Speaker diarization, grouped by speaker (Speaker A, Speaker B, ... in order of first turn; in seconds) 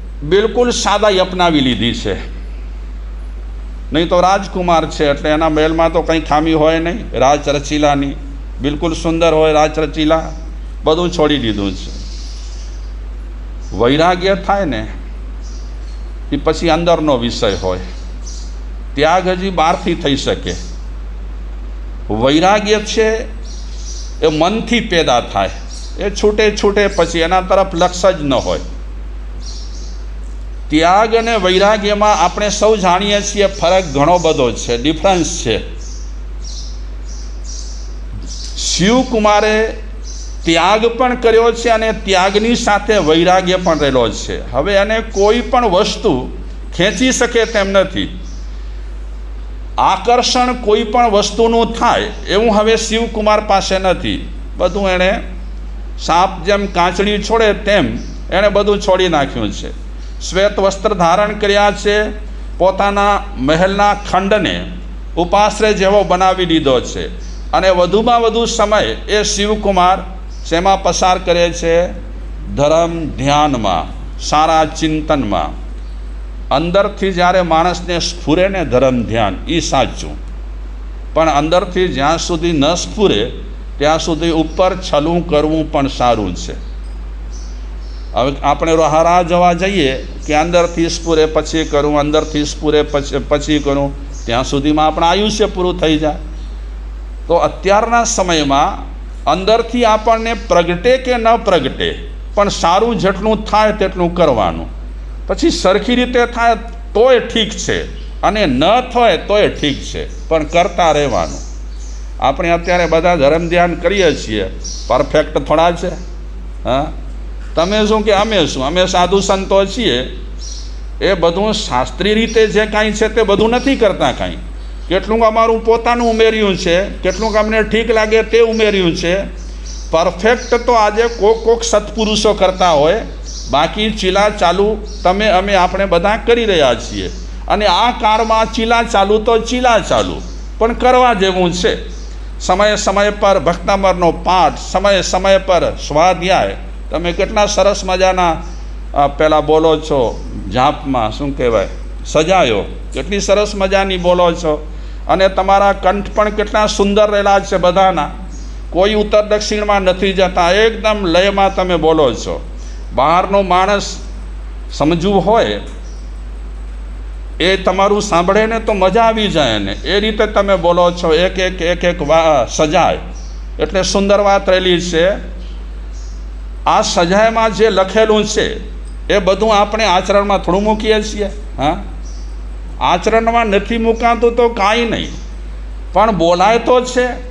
Speaker A: 0.2-2.2, 3.9-10.3, 10.8-12.0, 13.7-14.9, 16.3-17.8, 18.9-20.6, 22.1-23.3, 24.2-28.6, 30.7-35.6, 38.5-39.8, 40.4-48.1, 49.8-55.2, 56.0-72.0, 72.5-75.5, 76.5-80.2, 81.1-86.6, 88.2-96.2, 97.3-104.7, 105.3-111.4, 112.2-116.0, 116.6-116.9, 117.5-120.1, 121.0-129.3, 129.9-141.8, 142.4-148.4, 148.9-158.1, 158.7-162.4, 162.9-164.0, 164.7-165.6, 167.4-173.0, 173.6-175.2, 176.7-181.9, 182.8-185.2, 185.9-187.2